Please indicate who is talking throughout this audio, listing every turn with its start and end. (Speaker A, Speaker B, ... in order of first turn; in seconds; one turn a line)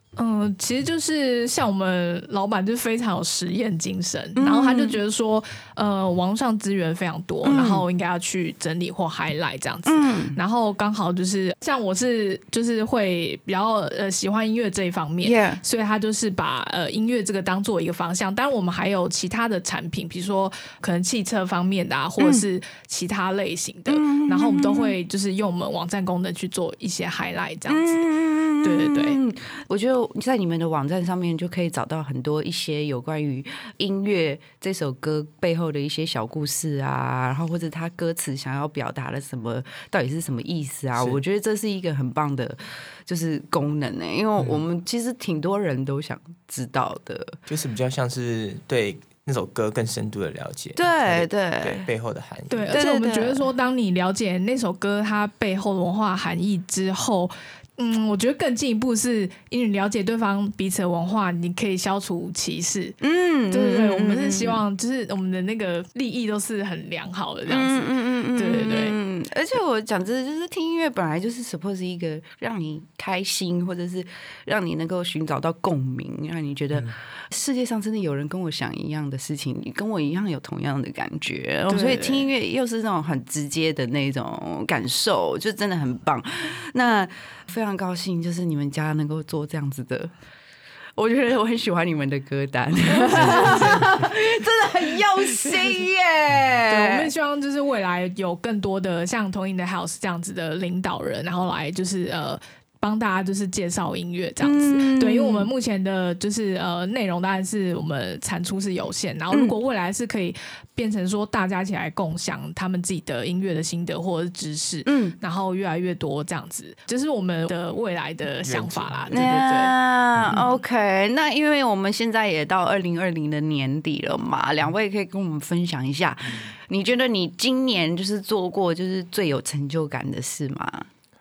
Speaker A: 0.2-28.1
Speaker B: 4.4-5.0
Speaker B: 7.4-7.8
Speaker B: 9.9-10.4
Speaker B: 15.2-15.6
Speaker B: 22.2-22.5
Speaker B: 23.9-25.0
Speaker B: 27.7-47.4
Speaker A: 28.6-29.2
Speaker C: 41.0-41.2
Speaker C: 44.4-44.6
Speaker C: 47.5-52.8
Speaker B: 50.8-51.9
Speaker A: 52.5-63.0
Speaker B: 52.7-53.4
Speaker B: 63.0-64.6
Speaker A: 63.5-69.0
Speaker B: 67.5-90.1
Speaker A: 81.7-82.3
Speaker B: 91.0-97.1
Speaker A: 93.0-93.9
Speaker C: 93.2-93.9
Speaker A: 96.7-119.8
Speaker B: 104.4-105.5
Speaker B: 114.9-115.2
Speaker C: 118.4-119.3
Speaker B: 119.1-130.9
Speaker C: 120.1-120.4